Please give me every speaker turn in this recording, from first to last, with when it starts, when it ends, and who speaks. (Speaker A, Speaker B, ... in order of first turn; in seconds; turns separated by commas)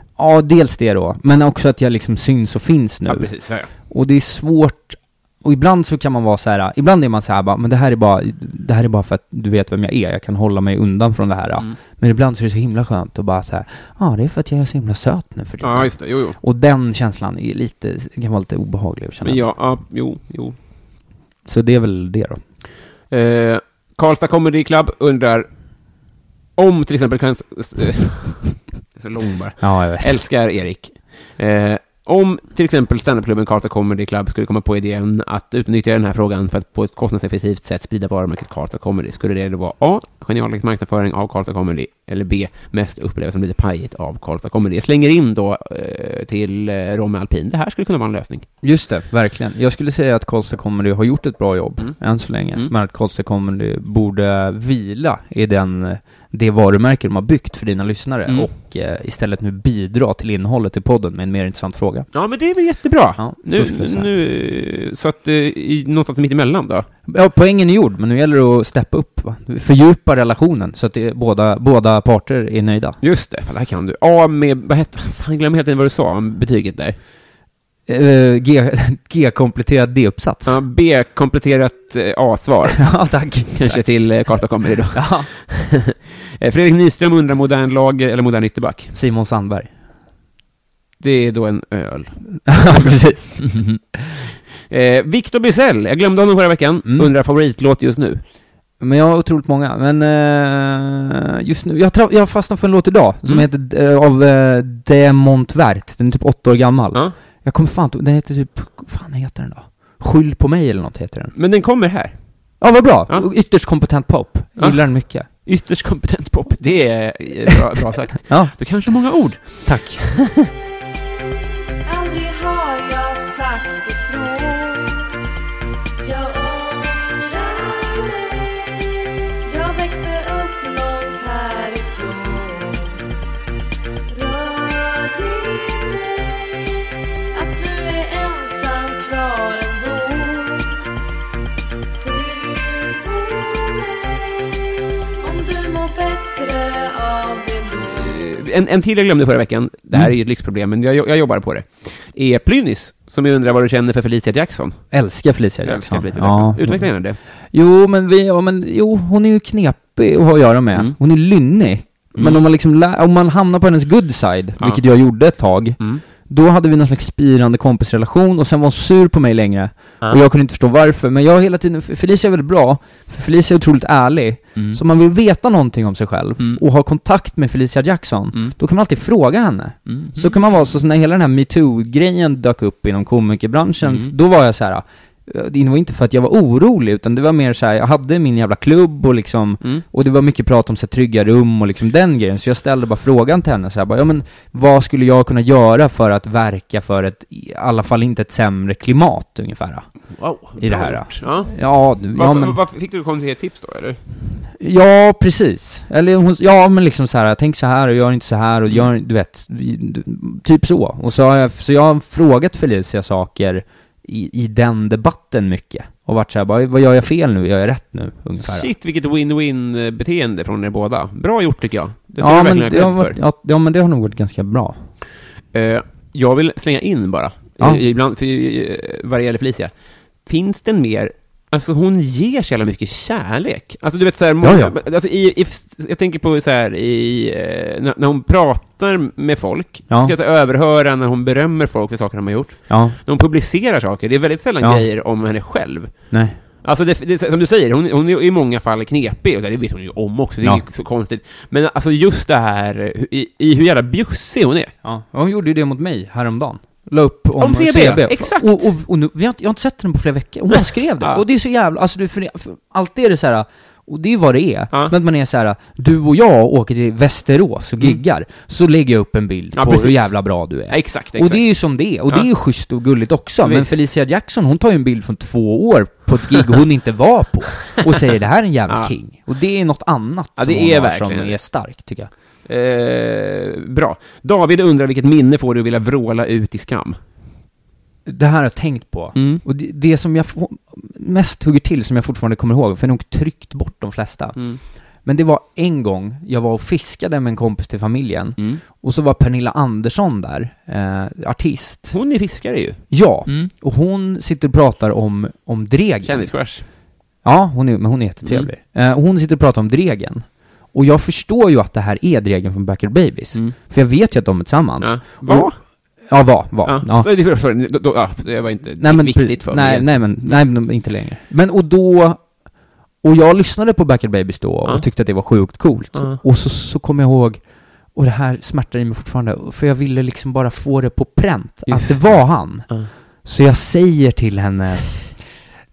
Speaker A: 0.2-19.4, Speaker B: 3.1-3.7, Speaker B: 15.6-16.4, Speaker B: 19.2-20.6, Speaker A: 21.4-22.4, Speaker B: 23.1-25.5, Speaker B: 26.6-48.5, Speaker A: 29.6-30.2, Speaker A: 48.6-62.1, Speaker B: 62.1-66.9, Speaker A: 63.2-64.1, Speaker A: 67.1-73.0, Speaker B: 73.0-77.0, Speaker A: 77.9-80.6, Speaker B: 80.5-88.9, Speaker A: 82.8-84.4, Speaker A: 84.9-85.3, Speaker A: 88.9-89.7, Speaker B: 91.0-93.7, Speaker A: 92.4-93.8, Speaker B: 94.7-98.2, Speaker A: 98.8-111.3, Speaker B: 111.3-112.2, Speaker A: 112.6-115.3, Speaker B: 114.6-120.5, Speaker A: 118.3-118.7, Speaker A: 119.6-120.2, Speaker C: 121.8-125.1, Speaker C: 126.0-128.6, Speaker C: 129.4-133.0, Speaker C: 134.1-136.3, Speaker C: 137.3-140.8, Speaker C: 142.0-144.1, Speaker C: 145.2-148.3, Speaker B: 147.9-154.8, Speaker A: 154.9-156.9, Speaker B: 155.6-157.2, Speaker A: 157.5-199.9, Speaker B: 162.2-162.4, Speaker B: 179.9-180.3, Speaker B: 183.8-184.1, Speaker B: 200.2-204.0, Speaker A: 200.6-202.6, Speaker A: 204.6-218.7, Speaker B: 218.4-223.2, Speaker A: 222.2-224.8, Speaker B: 225.5-229.7, Speaker B: 230.2-246.1, Speaker A: 234.4-234.8, Speaker A: 239.9-240.1, Speaker A: 242.7-243.0, Speaker A: 246.1-246.4, Speaker B: 246.6-254.7, Speaker A: 254.8-282.1, Speaker B: 257.4-258.7, Speaker B: 269.6-270.1, Speaker B: 270.7-271.4, Speaker B: 273.4-273.7, Speaker B: 280.4-281.4, Speaker B: 282.4-287.0, Speaker A: 288.1-294.4, Speaker B: 289.1-289.4, Speaker A: 295.0-302.0, Speaker B: 301.9-303.5, Speaker A: 302.9-306.3, Speaker B: 306.0-306.6, Speaker A: 307.2-315.5, Speaker B: 308.2-308.5, Speaker B: 314.8-315.6, Speaker A: 316.1-317.1, Speaker B: 316.6-320.4, Speaker A: 318.8-322.3, Speaker A: 323.0-327.4, Speaker B: 325.9-326.2, Speaker A: 327.9-332.7, Speaker B: 331.7-332.2, Speaker A: 333.2-335.2